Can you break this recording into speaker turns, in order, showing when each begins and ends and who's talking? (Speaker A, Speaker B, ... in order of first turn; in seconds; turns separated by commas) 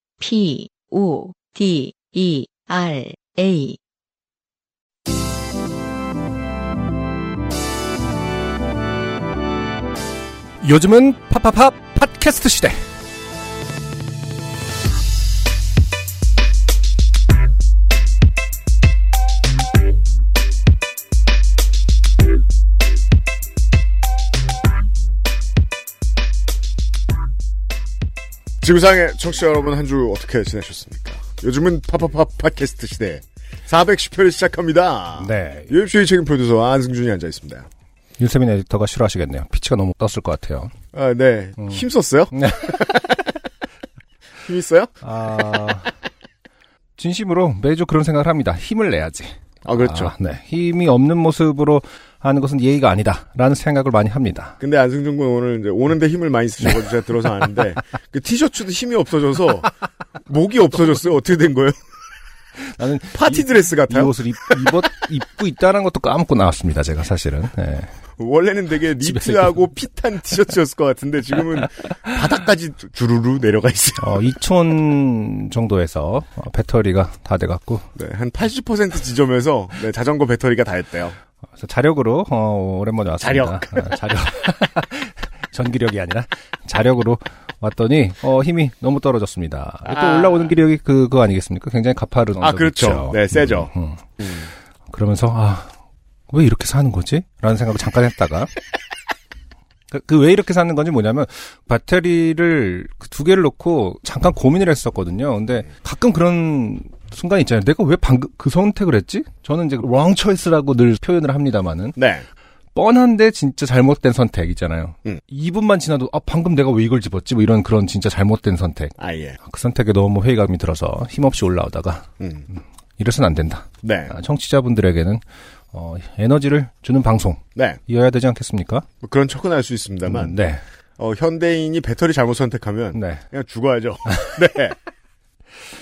Speaker A: 0.2-3.8, Speaker B: 10.6-12.8, Speaker C: 28.6-37.6, Speaker B: 35.2-35.7, Speaker B: 38.2-40.7, Speaker C: 40.9-43.2, Speaker B: 42.3-42.8, Speaker C: 44.4-44.9, Speaker B: 45.0-45.9, Speaker B: 47.0-54.5, Speaker C: 49.6-50.1, Speaker C: 54.6-59.7, Speaker C: 60.2-61.8, Speaker B: 62.6-67.9, Speaker C: 63.1-64.8, Speaker C: 68.2-74.3, Speaker B: 69.0-69.6, Speaker B: 74.0-77.9, Speaker C: 78.0-81.2, Speaker B: 81.6-94.0, Speaker C: 83.2-83.9, Speaker C: 89.9-90.5, Speaker C: 92.4-94.5, Speaker B: 94.9-95.7, Speaker B: 96.3-98.5, Speaker B: 99.9-112.0, Speaker C: 112.0-112.2, Speaker B: 112.7-122.1, Speaker C: 119.0-119.4, Speaker C: 122.2-122.5, Speaker B: 123.0-125.2, Speaker C: 123.8-124.1, Speaker B: 125.7-128.8, Speaker C: 129.0-130.3, Speaker B: 130.1-130.6, Speaker C: 131.0-134.7, Speaker B: 132.9-133.2, Speaker B: 134.1-134.3